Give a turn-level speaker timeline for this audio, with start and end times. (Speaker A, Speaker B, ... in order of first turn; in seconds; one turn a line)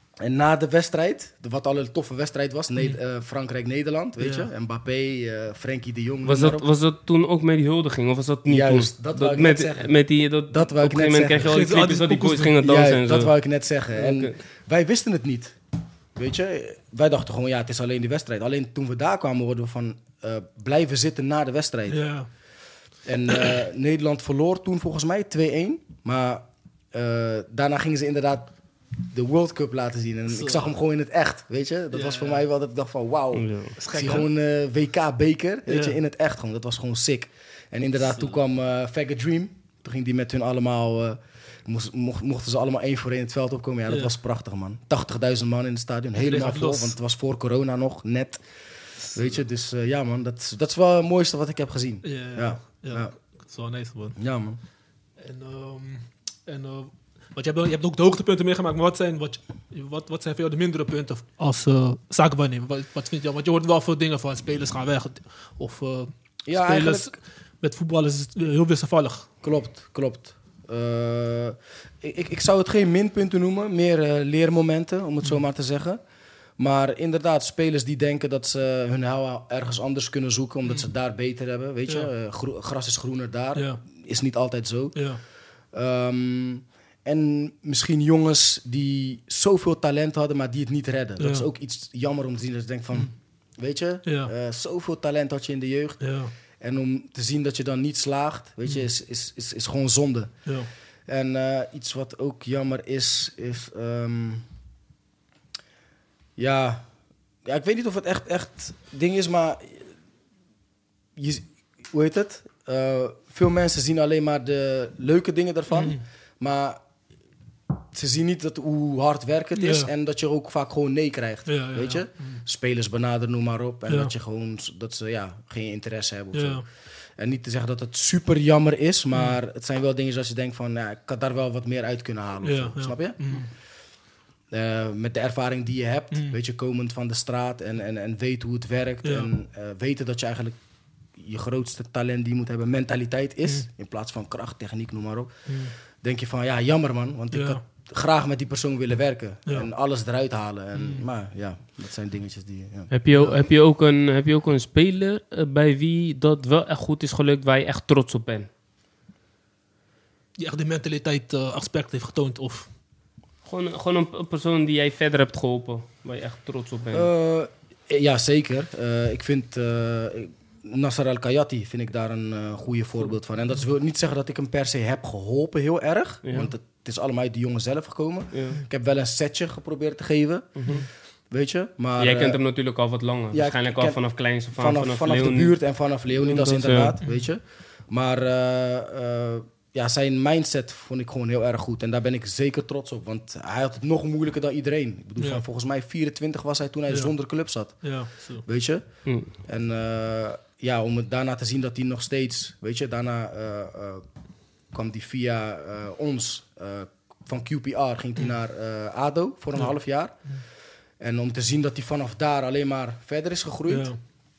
Speaker A: 0.2-6.7
Speaker B: 4.2-4.5
Speaker C: 6.2-13.3
Speaker A: 8.4-9.9
Speaker A: 10.5-11.6
Speaker B: 11.5-12.5
Speaker A: 12.6-15.6
Speaker C: 13.9-14.3
Speaker A: 16.1-22.0
Speaker B: 21.9-22.3
Speaker A: 23.0-48.4
Speaker B: 30.3-30.7
Speaker B: 31.9-32.4
Speaker C: 33.3-33.7
Speaker B: 33.8-34.3
Speaker B: 35.7-36.0
Speaker B: 46.2-46.9
Speaker A: 49.1-53.1
Speaker B: 52.0-54.2
Speaker A: 54.1-54.6
Speaker B: 55.2-69.3
Speaker A: 66.5-67.1
Speaker A: 69.4-76.0
Speaker A: 76.6-85.1
Speaker B: 83.5-83.8
Speaker B: 84.9-85.2
Speaker A: 85.7-100.3
Speaker B: 91.2-91.5
Speaker B: 94.0-94.3
Speaker B: 96.0-96.3
Speaker A: 101.1-104.5
Speaker A: 106.3-106.9
Speaker A: 107.4-109.9
Speaker A: 111.2-116.8
Speaker B: 115.7-116.0
Speaker A: 117.9-126.6
Speaker B: 119.5-119.9
Speaker B: 121.5-122.4
Speaker B: 126.3-126.6
Speaker A: 127.2-133.4
Speaker B: 132.4-133.5
Speaker A: 134.5-140.6
Speaker B: 139.0-139.3
Speaker A: 141.2-153.3
Speaker B: 145.5-145.7
Speaker B: 147.3-147.6
Speaker B: 150.8-151.0
Speaker C: 152.9-158.5
Speaker B: 160.4-162.7
Speaker C: 163.4-167.1
Speaker A: 166.9-180.7
Speaker C: 176.2-176.5
Speaker C: 178.3-178.6
Speaker C: 180.6-180.8
Speaker A: 181.3-182.4
Speaker C: 182.0-185.6
Speaker A: 183.3-184.0
Speaker A: 184.5-198.8
Speaker C: 186.1-186.9
Speaker B: 197.8-198.4
Speaker C: 199.1-199.3
Speaker A: 199.4-204.1
Speaker A: 204.7-210.2
Speaker A: 211.0-213.9
Speaker B: 213.7-214.0